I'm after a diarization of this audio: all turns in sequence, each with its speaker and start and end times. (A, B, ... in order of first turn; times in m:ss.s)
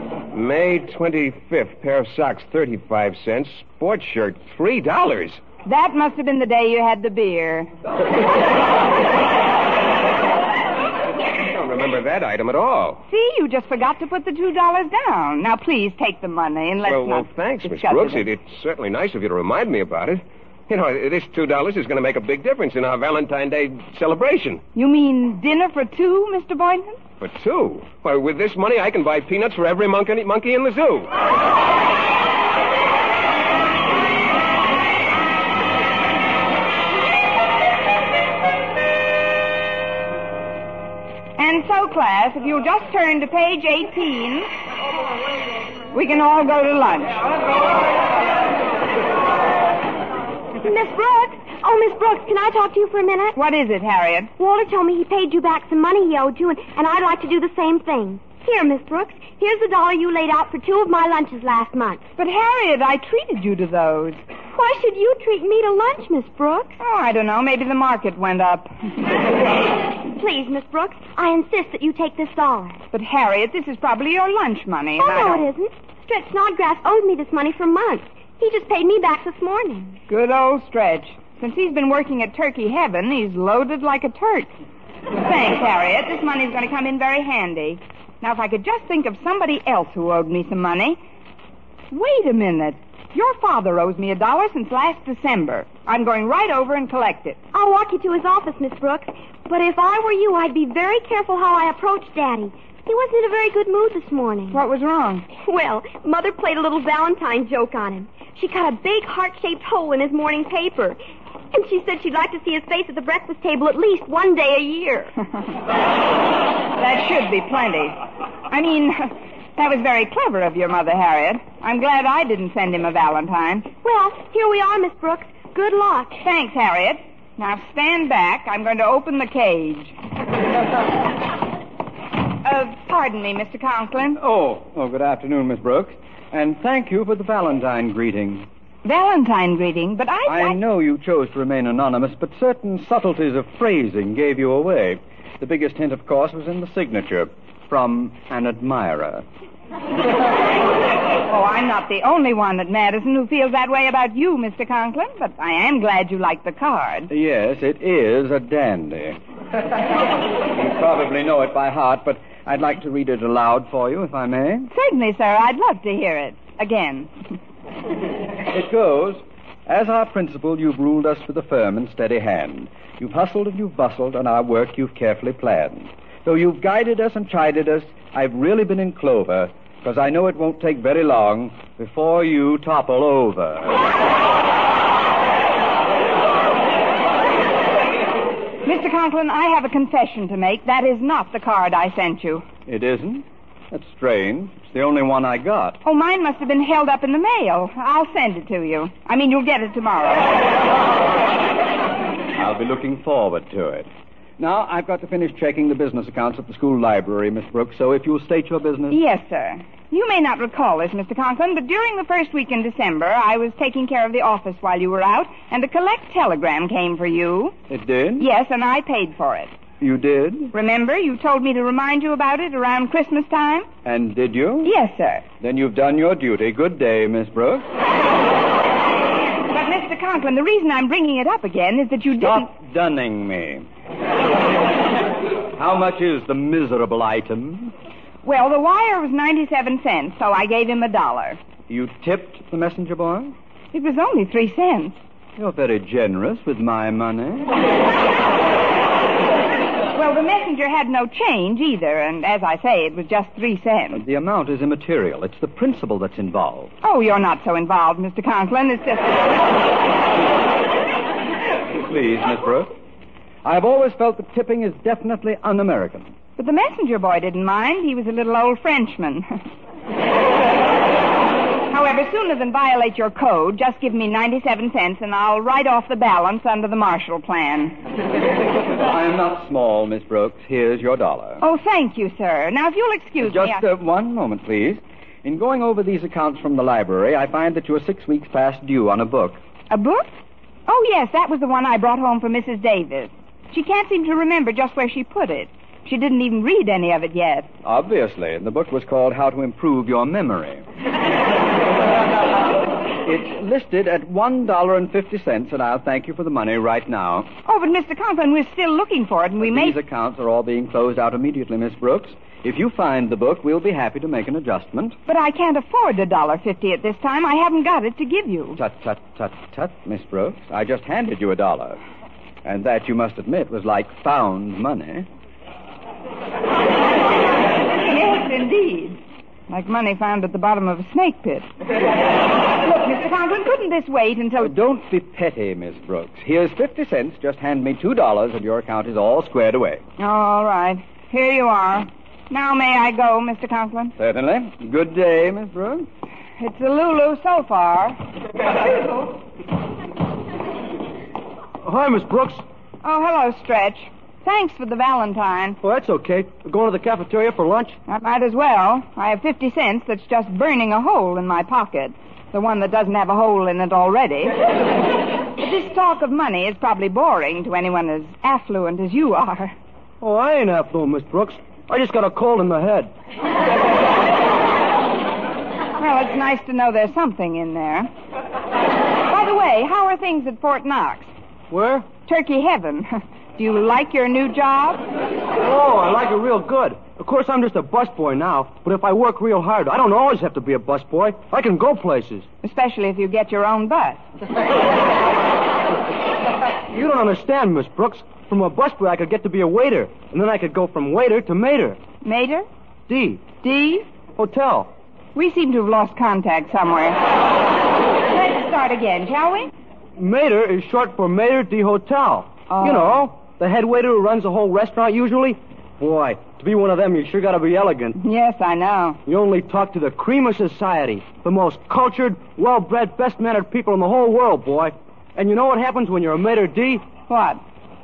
0:00.3-0:05.4 A
0:05.6-0:07.7 B
0:11.4-0:13.0 A
0:13.1-0:18.2 B
0:16.8-0:24.6 A
0:24.7-0:27.0 B
0:27.2-0:31.1 A
0:41.4-0:44.5 B
0:45.9-0:47.3 B
0:50.6-0:53.4 C
0:53.4-0:54.3 B
0:54.4-1:02.0 C
1:02.2-1:04.2 B
1:04.5-1:06.8 C
1:06.8-1:08.7 B
1:10.1-1:12.8 C
1:12.9-1:15.5 B
1:15.0-1:20.0 C
1:20.1-1:24.5 B
1:25.2-1:31.0 B
1:31.9-1:37.4 B
1:37.5-1:44.6 C
1:44.5-1:45.3 B
1:45.3-1:51.0 C
1:51.5-1:55.1 C
1:56.8-2:03.7 B
2:03.8-2:06.2 C
2:06.2-2:09.9 B
2:12.4-2:14.2 B
2:14.2-2:18.5 D
2:18.8-2:20.6 B
2:20.2-2:29.2 D
2:31.2-2:37.1 B
2:37.1-2:39.2 D
2:40.5-2:44.7 D
2:44.7-2:47.1 B
2:48.5-3:03.8 D
3:08.6-3:12.4 B
3:12.6-3:15.8 D
3:15.8-3:20.4 B
3:22.4-3:23.9 D
3:24.4-3:29.0 D
3:28.9-3:37.5 B
3:37.7-3:38.3 D
3:38.2-3:39.5 B
3:39.8-3:40.5 D
3:40.5-3:43.7 B
3:43.8-3:44.7 D
3:44.6-3:45.2 B
3:45.4-3:47.6 D
3:49.5-3:52.5 B
3:52.2-3:53.6 D
3:55.5-3:57.7 D
3:58.2-4:01.4 B
4:01.7-4:03.3 D
4:03.7-4:05.0 B
4:05.4-4:07.6 D
4:09.9-4:14.0 B
4:13.9-4:16.7 D
4:16.8-4:19.3 B
4:21.7-4:22.7 D
4:23.4-4:26.1 D
4:26.4-4:29.3 B
4:31.7-4:37.8 B
4:38.8-4:41.4 D
4:41.4-4:43.6 B
4:43.2-4:49.4 D
4:49.7-4:50.1 B
4:50.7-4:57.5 B
4:57.6-5:00.6 D
5:03.0-5:07.3 D
5:07.4-5:09.8 B
5:09.4-5:15.0 D
5:15.1-5:18.6 B
5:18.6-5:21.8 D
5:22.4-5:25.0 D
5:27.6-5:31.5 B
5:32.6-5:34.5 B
5:34.4-5:39.8 D
5:40.0-5:43.9 B
5:44.0-5:45.8 D
5:46.4-5:48.0 B
5:51.6-5:52.4 E
5:52.8-5:55.6 B
5:55.6-5:57.8 E
5:57.9-6:04.4 B
6:05.4-6:09.5 B
6:10.0-6:12.9 E
6:15.8-6:17.9 B
6:19.1-6:21.1 B
6:21.5-6:21.9 E
6:22.0-6:24.8 B
6:25.4-6:32.2 E
6:32.4-6:34.0 B
6:36.7-6:41.8 E
6:42.0-6:42.5 B
6:42.9-6:43.3 E
6:43.4-6:43.8 B
6:44.2-6:44.7 E
6:45.1-6:47.0 B
6:48.1-6:49.5 B
6:50.0-6:58.0 E
6:52.5-6:52.9 B
6:58.0-6:59.0 B
6:59.0-7:06.8 E
7:07.1-7:07.4 B